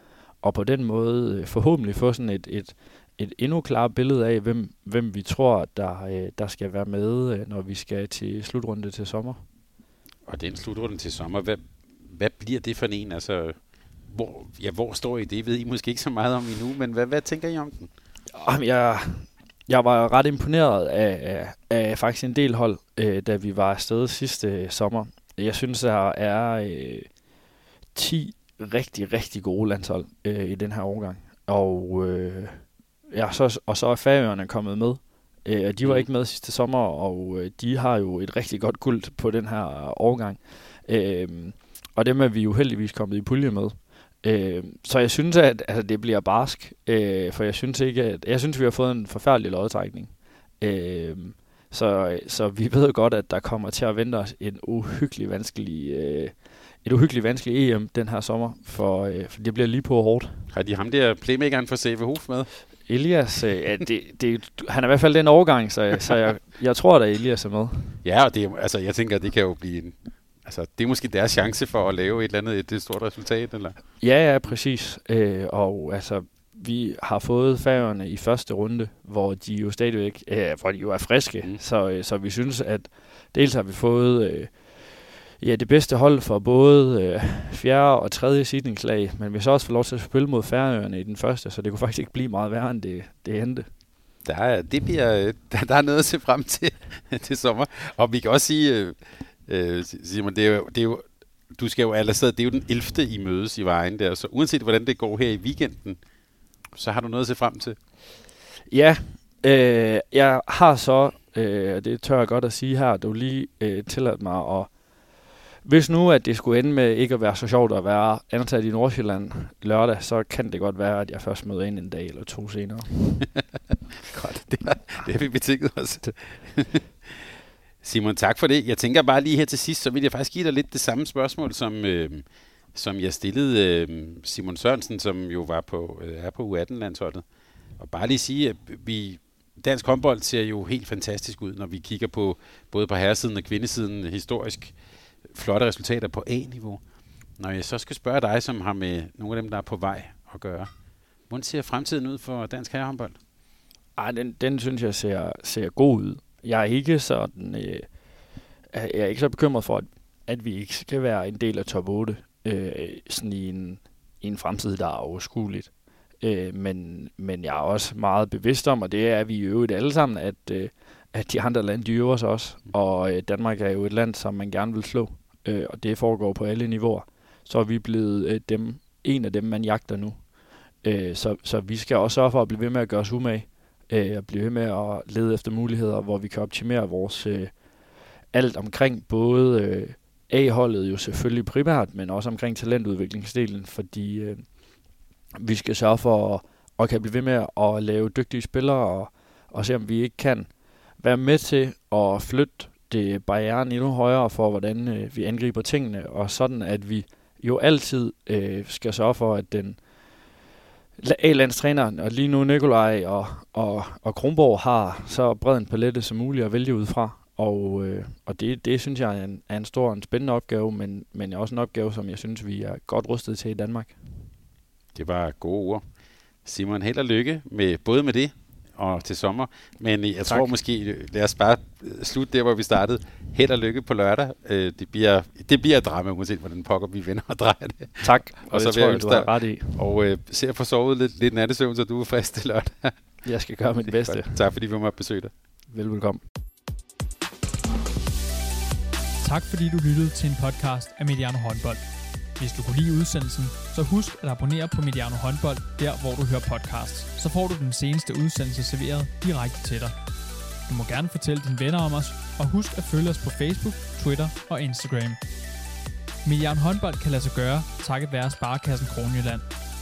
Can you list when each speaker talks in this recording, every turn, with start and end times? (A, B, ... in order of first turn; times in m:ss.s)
0:00.4-0:09.4 A
0:10.3-0:13.6 B
0:14.1-0:17.9 B
0:18.4-0:27.1 A
0:28.0-0:56.3 A
0:56.8-1:00.4 A
1:00.5-1:02.5 B
1:02.9-1:08.0 A
1:08.0-1:13.8 B
1:14.0-1:24.5 A
1:25.4-1:33.7 A
1:34.2-1:46.0 B
1:46.7-1:47.8 B
1:48.7-1:54.7 A
1:55.6-2:03.2 A
2:04.1-2:07.3 B
2:07.8-2:17.2 B
2:17.8-2:24.7 B
2:25.3-2:26.8 B
2:27.4-2:30.7 B
2:31.3-2:33.2 B
2:34.0-2:37.9 A
2:38.7-2:45.7 A
2:46.2-3:00.2 A
3:00.8-3:07.5 A
3:08.3-3:14.4 A
3:15.4-3:20.5 A
3:21.0-3:29.8 A
3:31.0-3:44.0 A
3:45.0-3:45.8 B
3:46.4-4:03.0 B
3:58.0-3:59.8 A
4:03.2-4:04.4 A
4:03.9-4:05.3 B
4:05.7-4:06.2 A
4:09.2-4:11.8 C
4:12.4-4:19.9 C
4:20.7-4:25.2 C
4:26.2-4:29.4 C